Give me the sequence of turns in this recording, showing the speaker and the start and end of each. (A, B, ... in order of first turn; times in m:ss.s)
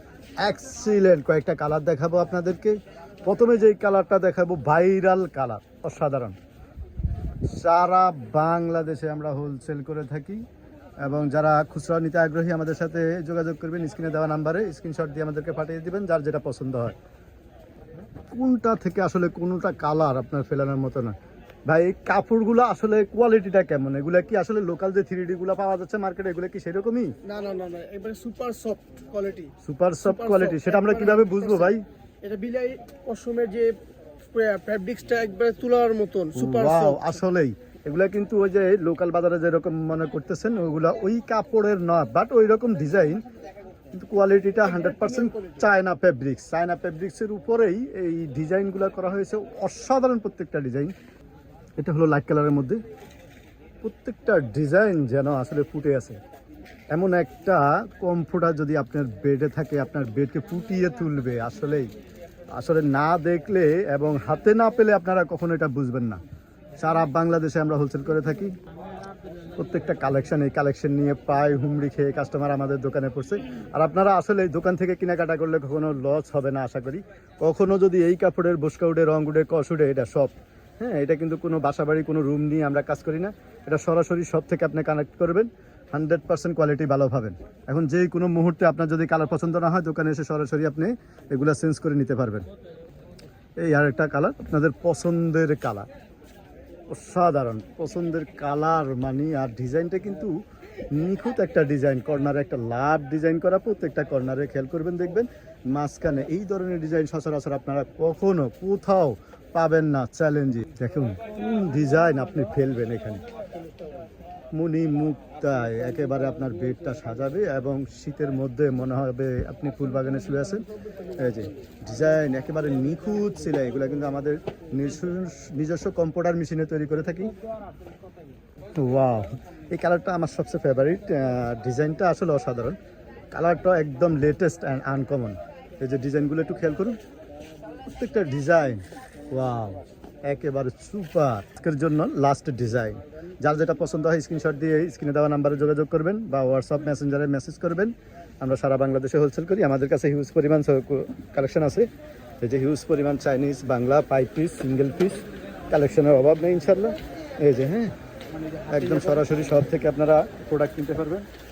0:00.4-0:06.4 A
0:07.4-0:10.4 A
0:11.0-0:17.0 A
0:18.3-0:21.2 A
0:21.7-0:27.2 A
0:27.2-0:29.5 B
0:29.6-0:31.8 A
0:30.1-0:37.2 B
0:36.4-0:43.2 A
0:43.9-0:50.9 A
0:44.9-0:45.6 B
0:51.8-0:52.8 A
0:53.8-0:56.2 A
0:56.9-1:01.9 A
1:02.5-1:06.2 A
1:06.8-1:08.6 A
1:09.6-1:32.5 A
1:33.6-1:35.9 A
1:36.9-1:40.4 A
1:40.9-1:53.2 A
1:54.5-2:00.6 A
2:01.2-2:07.3 A
2:08.8-2:12.8 A
2:13.3-2:17.0 A
2:17.8-2:31.9 A
2:32.4-2:37.9 A
2:38.7-2:41.3 A